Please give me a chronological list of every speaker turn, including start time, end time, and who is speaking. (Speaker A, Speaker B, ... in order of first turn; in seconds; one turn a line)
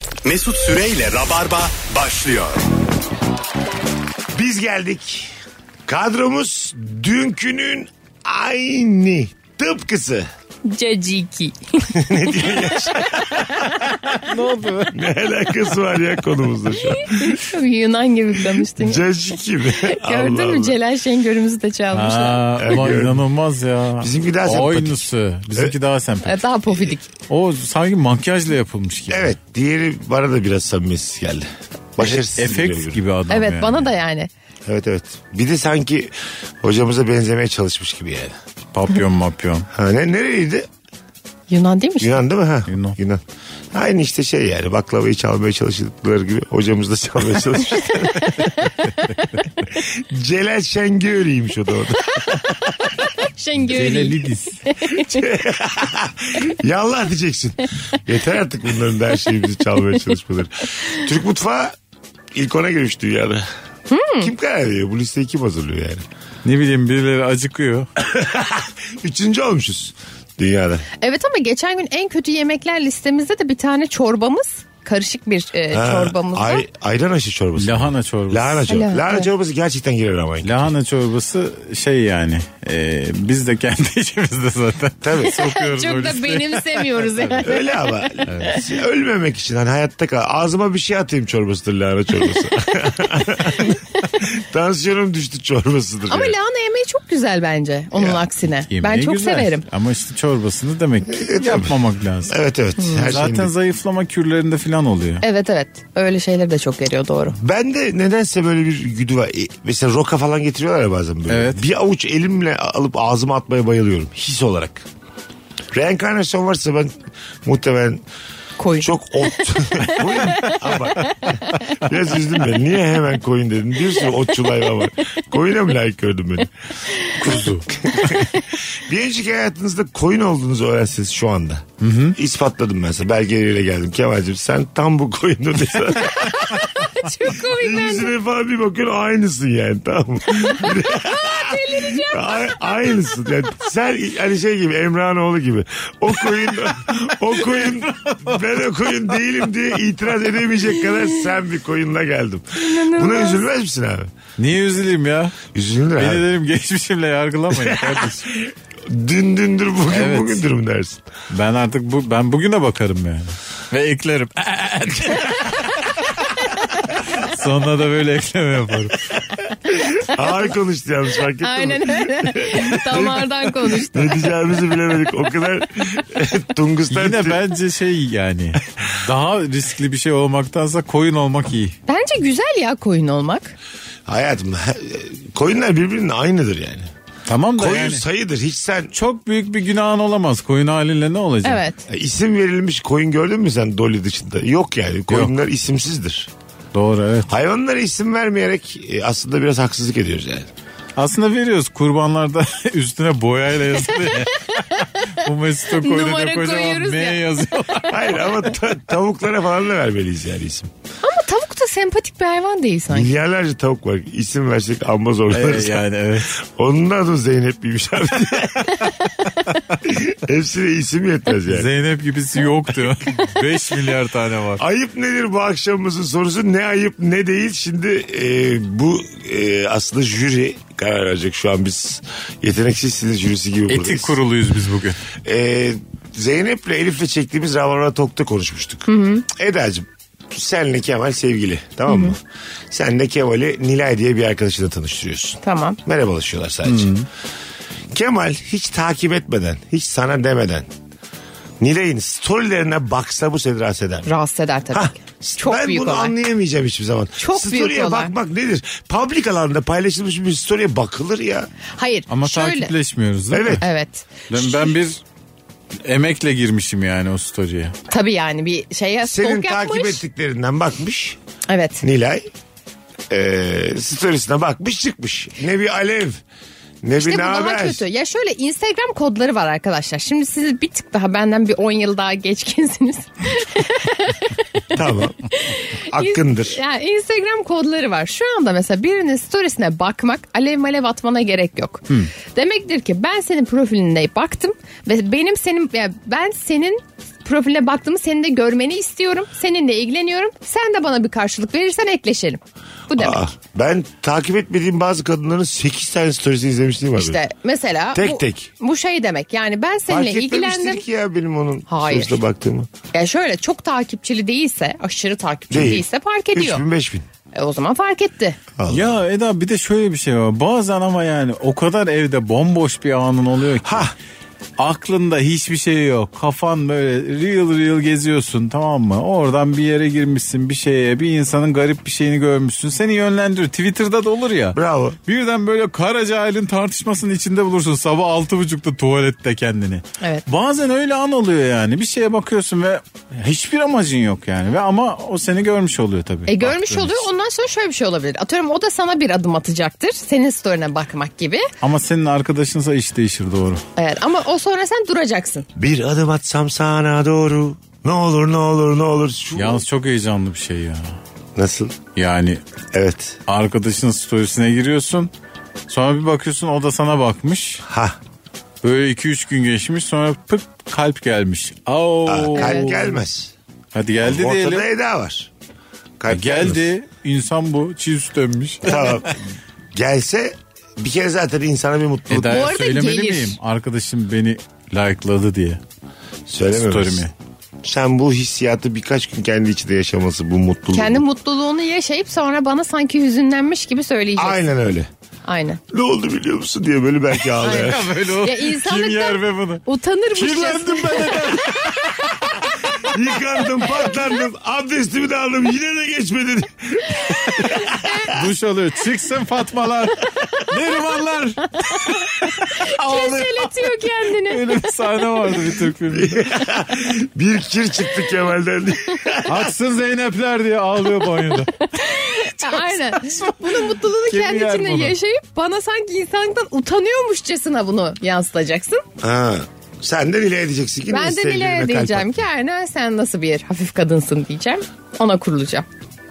Speaker A: 0.2-2.7
Speaker B: 4.3-5.3
Speaker B: 5.9-10.3
Speaker C: 10.7-14.0
Speaker B: 11.9-13.7
Speaker D: 14.1-15.0
Speaker B: 14.9-17.4
Speaker C: 17.0-19.0
Speaker B: 18.6-20.8
Speaker C: 19.8-22.6
Speaker D: 21.9-26.4
Speaker B: 22.6-23.2
Speaker B: 24.0-25.7
Speaker C: 26.2-27.1
Speaker D: 27.3-29.4
Speaker B: 29.1-33.0
Speaker D: 32.0-33.9
Speaker C: 33.3-34.3
Speaker B: 34.6-38.4
Speaker D: 38.7-39.7
Speaker B: 39.7-40.7
Speaker C: 41.5-42.2
Speaker B: 42.0-43.2
Speaker D: 42.7-43.0
Speaker B: 43.7-48.6
Speaker C: 48.2-49.3
Speaker B: 49.8-52.4
Speaker C: 52.0-55.3
Speaker D: 53.6-54.6
Speaker B: 55.0-61.8
Speaker B: 62.3-63.5
Speaker C: 63.9-64.3
Speaker B: 64.2-66.0
Speaker D: 66.4-67.9
Speaker B: 68.0-70.9
Speaker C: 71.0-76.7
Speaker B: 75.7-80.7
Speaker D: 77.6-78.6
Speaker C: 78.7-79.3
Speaker D: 80.4-87.5
Speaker B: 85.0-85.4
Speaker C: 85.2-88.6
Speaker B: 87.4-96.4
Speaker D: 88.3-88.6
Speaker C: 96.1-99.7
Speaker B: 98.0-98.2
Speaker D: 98.7-102.3
Speaker B: 101.1-101.8
Speaker B: 102.3-103.5
Speaker D: 103.0-105.2
Speaker C: 105.2-107.4
Speaker B: 107.4-114.9
Speaker D: 111.3-111.6
Speaker B: 115.7-118.0
Speaker C: 118.6-121.6
Speaker B: 118.8-126.5
Speaker C: 126.9-127.2
Speaker D: 127.2-127.7
Speaker B: 127.8-136.6
Speaker D: 131.8-132.2
Speaker C: 136.2-138.1
Speaker B: 137.4-154.1
Speaker C: 140.3-143.1
Speaker D: 147.5-148.4
Speaker C: 152.6-153.4
Speaker D: 154.4-155.4
Speaker B: 155.5-156.3
Speaker D: 156.0-158.3
Speaker B: 157.5-161.0
Speaker D: 159.9-160.4
Speaker D: 161.3-166.0
Speaker D: 167.1-169.2
Speaker B: 169.8-177.4
Speaker C: 171.4-174.3
Speaker D: 176.9-181.8
Speaker C: 181.9-183.6
Speaker B: 184.1-186.9
Speaker D: 187.3-188.0
Speaker B: 187.6-188.9
Speaker D: 188.9-191.6
Speaker C: 191.4-191.8
Speaker B: 191.9-196.3
Speaker D: 196.7-197.3
Speaker B: 197.3-200.5
Speaker D: 201.0-208.2
Speaker C: 204.1-207.8
Speaker B: 207.9-210.7
Speaker C: 211.0-213.1
Speaker B: 212.9-215.8
Speaker D: 215.3-216.4
Speaker B: 216.4-218.9
Speaker B: 219.8-221.7
Speaker D: 221.5-224.6
Speaker B: 224.6-234.2
Speaker D: 233.7-235.0
Speaker B: 235.2-242.2
Speaker C: 238.9-239.3
Speaker C: 241.9-242.2
Speaker B: 242.7-246.9
Speaker C: 245.4-245.8
Speaker D: 246.7-247.1
Speaker B: 247.9-250.7
Speaker B: 251.6-254.1
Speaker C: 254.1-256.1
Speaker B: 254.7-261.5
Speaker C: 257.2-258.1
Speaker C: 261.8-262.7
Speaker D: 262.1-263.6
Speaker B: 263.3-263.6
Speaker C: 263.6-264.8
Speaker D: 264.3-265.0
Speaker D: 265.8-267.8
Speaker C: 267.9-270.0
Speaker B: 269.1-271.2
Speaker C: 271.5-271.8
Speaker B: 271.8-272.3
Speaker B: 273.1-276.2
Speaker B: 276.8-277.8
Speaker C: 277.0-303.3
Speaker B: 284.7-285.3
Speaker B: 285.8-286.6
Speaker B: 302.9-307.2
Speaker C: 307.0-310.8
Speaker B: 307.9-308.5
Speaker B: 309.9-312.7
Speaker C: 311.7-312.2
Speaker C: 312.9-316.6
Speaker B: 315.5-317.1
Speaker C: 317.3-318.4
Speaker B: 318.6-318.9
Speaker D: 318.7-323.9
Speaker B: 323.6-323.9
Speaker D: 324.6-347.1
Speaker B: 334.5-335.0
Speaker C: 346.3-351.5
Speaker D: 351.6-353.6
Speaker C: 353.8-355.5
Speaker B: 355.6-359.6
Speaker D: 359.4-361.0
Speaker B: 361.4-361.8
Speaker D: 361.9-362.4
Speaker B: 362.7-363.2
Speaker D: 363.3-365.1
Speaker D: 365.7-367.6
Speaker B: 367.6-368.0
Speaker D: 368.6-372.9
Speaker B: 372.1-373.3
Speaker C: 372.4-372.7
Speaker D: 373.7-374.7
Speaker B: 374.0-375.3
Speaker B: 376.0-376.7
Speaker D: 376.1-379.2
Speaker B: 378.6-379.2
Speaker B: 379.7-382.6
Speaker D: 382.1-385.6
Speaker C: 382.3-383.4
Speaker B: 386.3-387.1
Speaker D: 386.5-387.1
Speaker B: 387.6-391.0
Speaker C: 390.7-394.4
Speaker B: 394.2-394.9
Speaker C: 395.3-395.6
Speaker B: 395.7-398.0
Speaker D: 397.4-399.6
Speaker C: 397.4-401.9
Speaker D: 400.1-402.5
Speaker B: 402.8-408.2
Speaker C: 407.4-408.1
Speaker D: 408.1-416.4
Speaker C: 411.6-414.7
Speaker B: 415.9-419.6
Speaker D: 419.2-425.0
Speaker C: 421.2-428.8
Speaker B: 429.0-432.2
Speaker C: 430.9-435.7